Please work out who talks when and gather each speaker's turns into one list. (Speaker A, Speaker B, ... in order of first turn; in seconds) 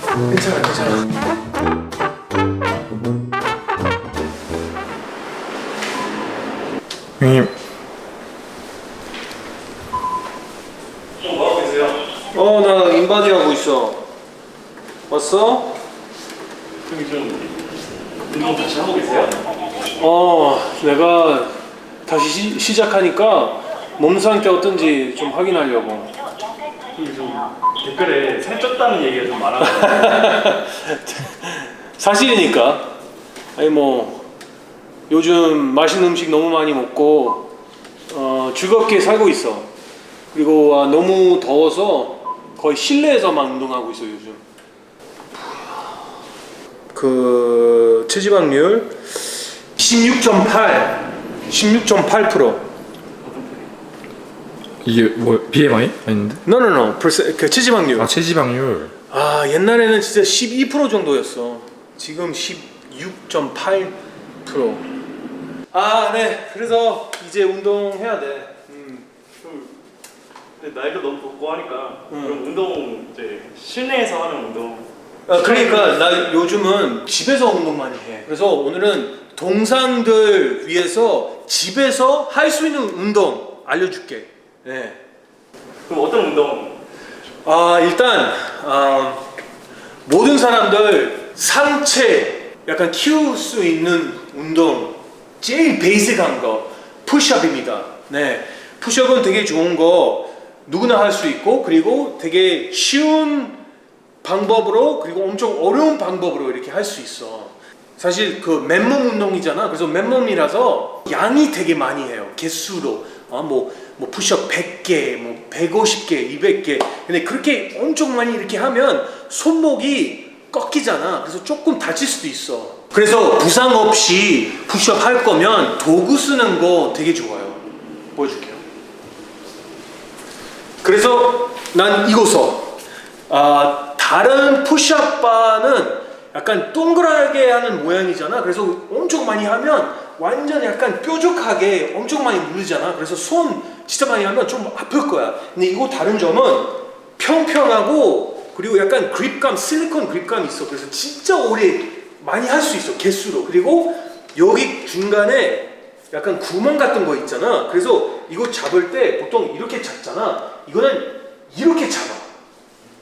Speaker A: 0.3-1.1, 12.3-14.0, 15.1-15.8, 20.0-21.6, 22.1-26.1, 29.6-32.9, 33.6-34.2, 35.1-37.5, 38.1-39.7, 40.3-44.4, 46.9-49.0, 49.8-52.6, 56.5-58.1, 59.1-64.8, 65.7-69.1, 72.1-72.4, 75.3-85.0, 87.4-89.3, 90.1-103.6, 104.2-127.6, 128.2-128.6, 130.8-132.8, 133.3-162.3
Speaker B: 7.2-7.5, 54.8-56.4, 58.0-58.9
Speaker C: 11.2-12.0, 16.9-17.5, 18.3-19.4, 26.9-30.4, 53.2-53.7, 69.4-69.7, 70.6-76.2, 85.9-86.8